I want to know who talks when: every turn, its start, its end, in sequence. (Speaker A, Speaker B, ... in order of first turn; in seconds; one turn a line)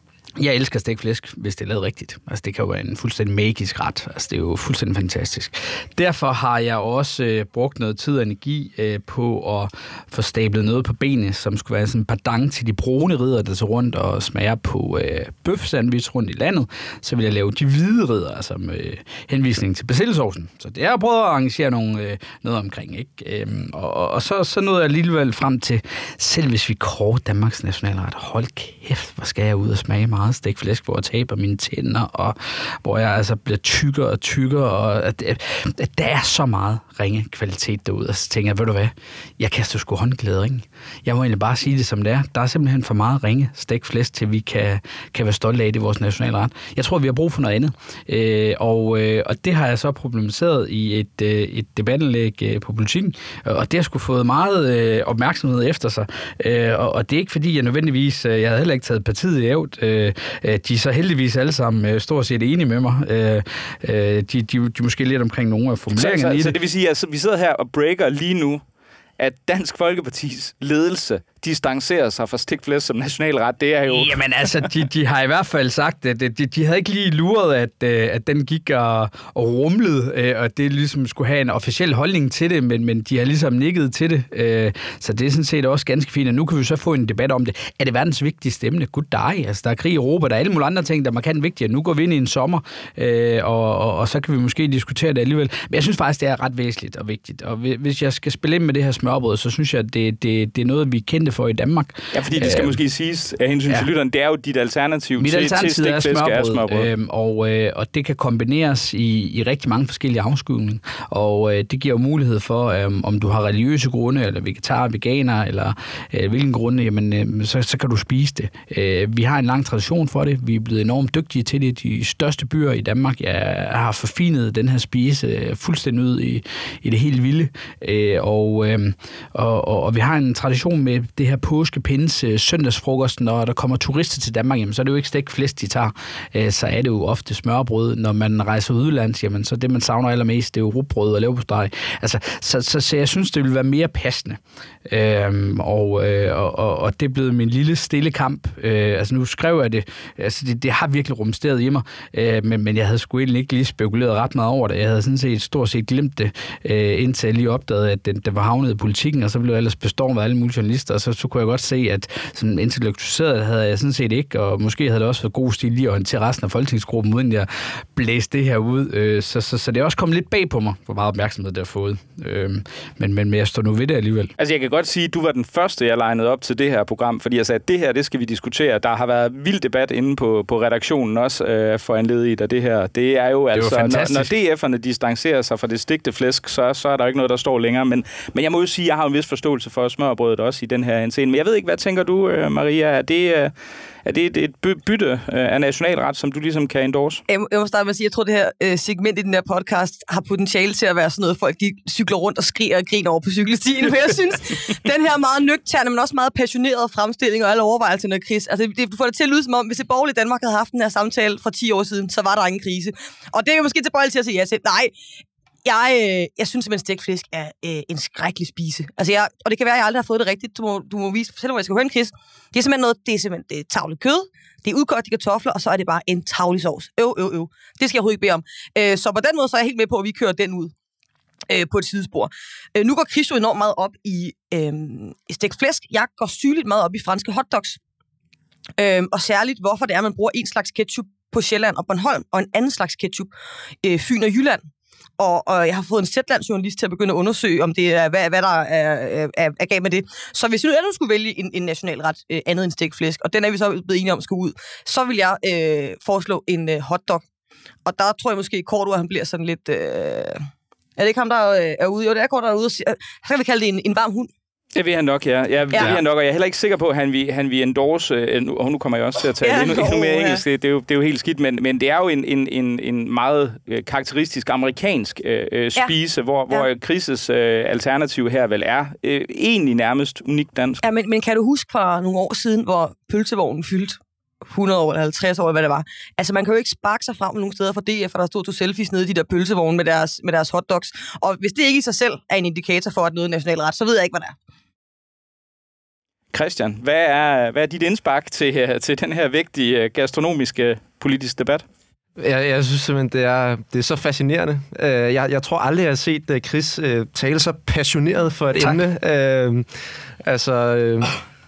Speaker A: 0.4-66.5
Speaker B: 66.0-68.6
Speaker B: 69.2-74.7
Speaker A: 73.9-102.8
Speaker B: 102.1-106.9
Speaker A: 105.2-174.3
Speaker B: 174.4-193.5
Speaker A: 183.5-184.3
Speaker B: 194.1-197.2
Speaker C: 197.3-214.9
Speaker C: 215.6-230.7
Speaker C: 231.5-237.8
Speaker C: 238.8-243.3
Speaker C: 243.8-244.6
Speaker C: 245.2-257.2
Speaker C: 257.9-260.4
Speaker C: 261.0-264.3
Speaker B: 264.7-280.8
Speaker C: 265.7-266.0
Speaker C: 269.4-270.4
Speaker C: 280.8-294.3
Speaker B: 296.3-301.6
Speaker D: 302.2-309.7
Speaker D: 310.2-311.2